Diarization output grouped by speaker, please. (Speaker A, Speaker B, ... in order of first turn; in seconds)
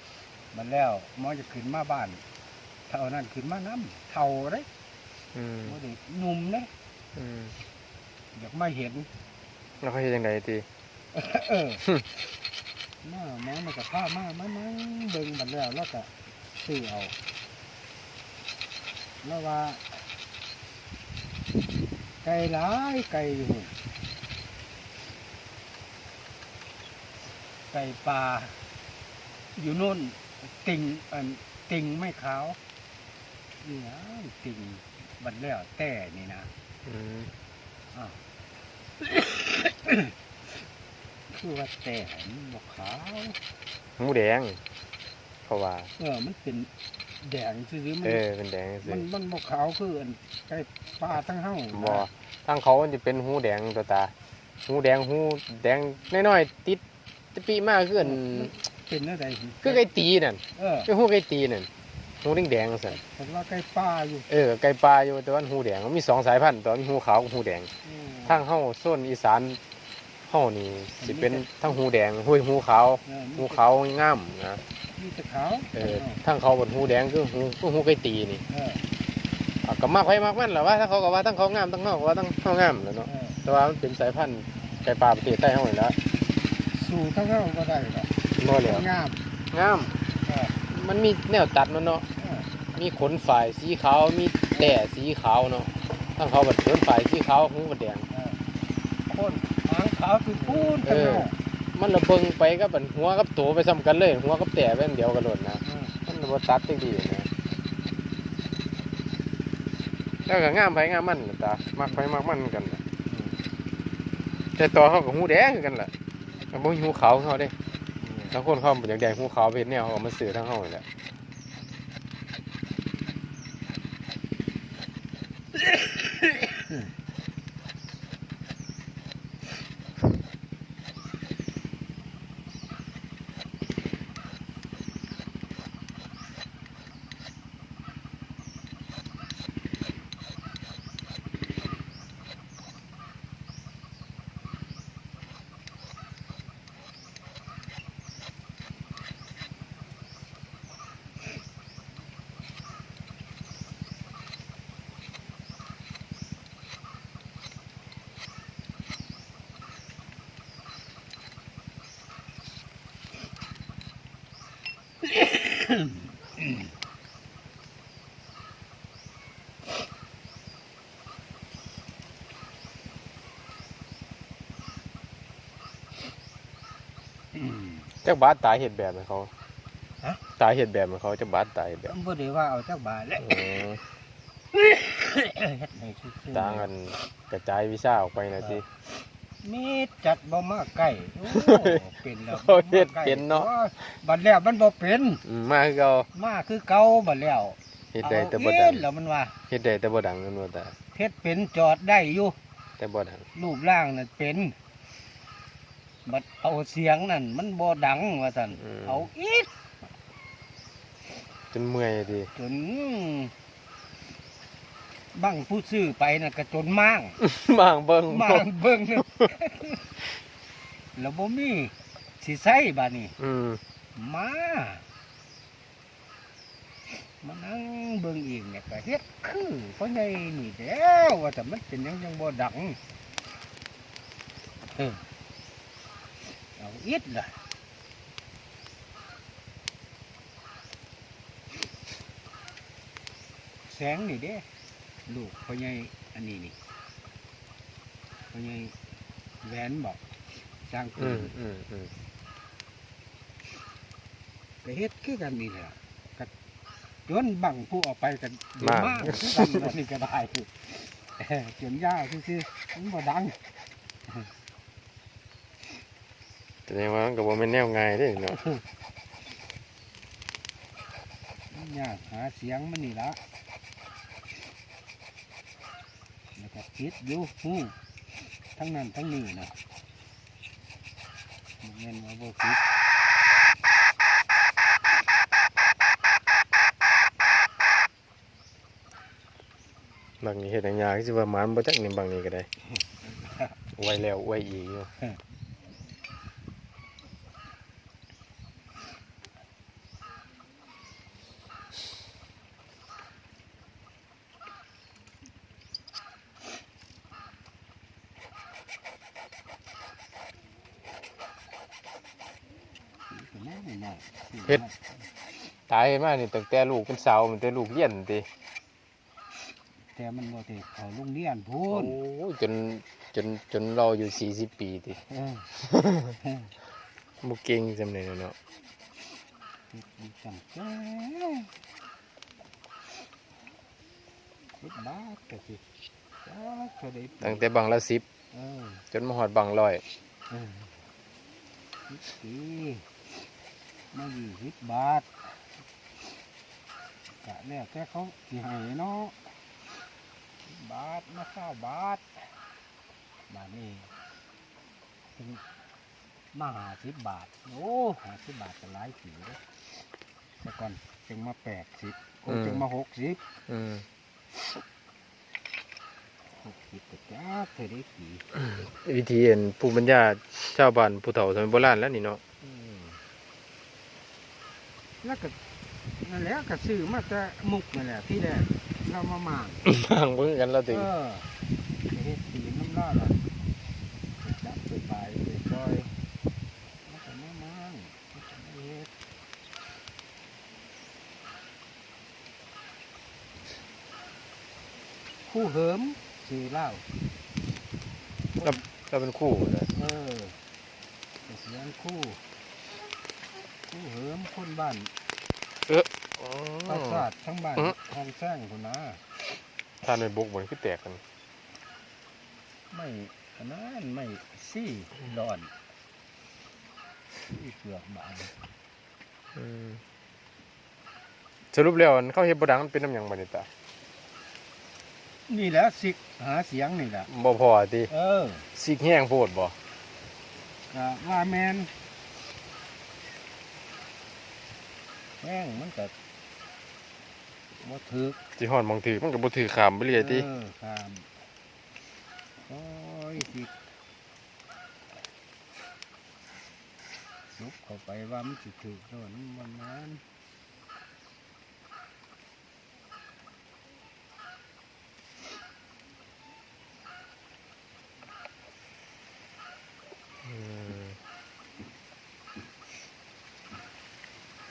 Speaker A: 0.5-2.2, 2.9-4.7, 5.6-6.7, 8.3-9.1, 11.1-11.8, 13.0-17.1, 19.2-20.0, 22.2-23.8, 27.7-28.6, 29.5-32.6, 33.6-36.5, 37.9-38.2, 39.0-40.1, 41.3-43.4, 46.0-48.2, 48.8-52.1, 58.0-59.8, 60.5-60.9, 62.9-64.3, 67.8-68.4, 71.0-71.6, 73.0-73.6, 75.0-76.2, 78.5-78.8, 83.0-83.4, 86.7-89.2, 90.2-90.6, 92.2-92.5, 94.5-94.8, 98.1-98.4, 99.1-101.3, 105.6-106.0, 113.1-113.4, 118.0-118.4, 165.2-165.9, 177.3-177.9, 181.8-183.4, 184.5-186.7, 189.4-195.2, 196.1-199.3, 200.9-202.4, 203.3-204.6, 206.1-209.5, 212.3-213.3, 215.1-217.2, 218.1-220.0, 220.9-223.2, 223.9-224.8, 227.0-232.8, 234.7-235.0, 236.6-237.4, 243.7-244.4, 245.1-246.6, 248.3-248.8, 249.4-250.1, 250.6-251.3, 254.6-256.3, 257.1-263.4, 271.5-273.2, 276.4-277.8, 278.5-279.5, 281.6-282.7, 292.8-293.6, 313.1-315.0, 319.9-322.0, 325.0-325.5, 326.2-326.5, 329.7-331.5, 334.6-335.6, 336.2-337.4, 338.3-338.8, 340.3-340.8, 341.9-342.9, 343.9-345.1, 347.2-349.3, 350.4-352.2, 353.3-353.9, 355.1-355.4, 356.3-359.4, 360.4-363.2, 366.3-368.2, 372.4-373.0, 375.0-375.4, 376.0-379.6, 380.7-381.3, 381.9-383.2, 384.2-385.9, 386.8-388.9, 395.2-396.8, 399.7-400.4, 401.2-402.2, 403.7-404.9, 406.6-409.0, 412.7-415.5, 417.2-418.3, 425.3-427.1, 427.9-428.5, 430.7-431.7, 435.2-435.9, 437.6-438.2, 439.9-441.1, 442.4-443.5, 447.4-450.0
Speaker B: 5.3-5.8, 7.2-7.5, 9.8-10.6, 36.9-37.3, 44.0-44.6, 45.5-45.9, 48.0-49.0, 51.7-54.1, 54.7-56.8, 57.3-58.5, 59.6-61.7, 62.2-63.0, 64.3-67.7, 68.2-69.6, 70.3-74.6, 75.7-78.4, 79.6-86.0, 88.3-88.9, 89.5-89.9, 90.7-92.0, 92.7-98.0, 100.4-107.3, 110.2-112.8, 114.5-115.9, 116.5-117.5, 118.3-120.8, 178.0-179.3, 180.4-181.9, 183.2-183.8, 186.3-188.6, 191.3-191.8, 192.3-193.5, 195.2-196.1, 197.9-198.8, 199.5-200.7, 202.8-203.2, 208.7-208.9, 211.5-212.3, 217.2-218.5, 223.2-223.6, 251.0-251.9, 258.6-259.7, 266.7-268.4, 290.2-292.5, 293.8-294.9, 315.7-318.2, 321.7-325.0, 325.6-326.1, 327.2-328.4, 337.2-338.0, 338.9-339.8, 362.3-362.6, 363.5-363.8, 368.4-372.2, 379.6-380.9, 398.4-399.7, 405.7-407.1, 409.8-411.0, 419.4-419.8, 421.5-423.5, 427.1-427.9, 428.5-429.5, 438.4-440.3, 460.2-461.0